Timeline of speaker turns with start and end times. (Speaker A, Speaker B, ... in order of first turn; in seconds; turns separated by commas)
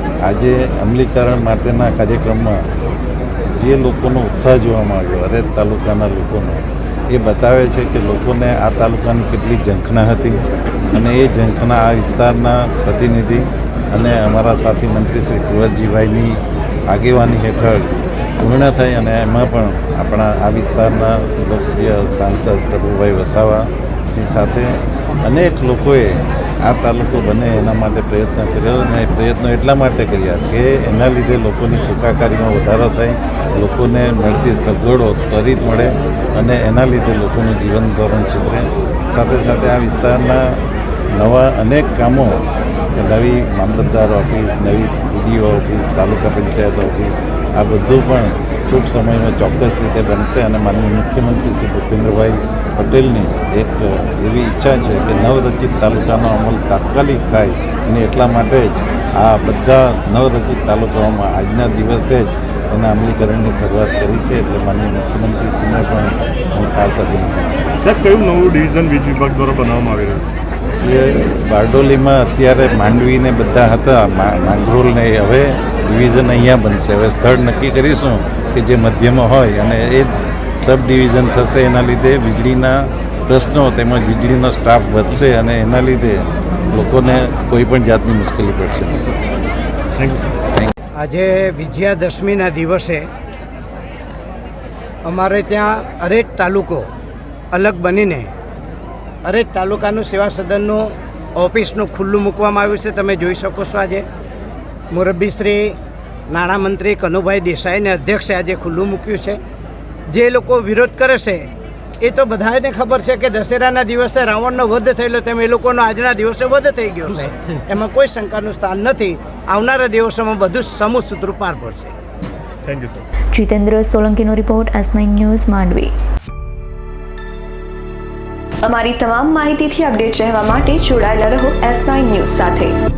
Speaker A: 0.2-2.7, Speaker A: 3.5-40.6, Speaker A: 41.1-42.4, Speaker A: 42.9-67.5, Speaker B: 67.8-70.3, Speaker A: 70.8-89.0, Speaker B: 90.0-90.5, Speaker C: 91.0-93.1, Speaker C: 95.0-96.9, Speaker C: 97.5-98.3, Speaker C: 99.2-104.1, Speaker C: 104.9-105.8, Speaker C: 106.3-109.4, Speaker C: 110.1-111.5, Speaker C: 112.0-121.9, Speaker B: 122.6-123.1, Speaker D: 123.3-125.9, Speaker E: 128.6-132.8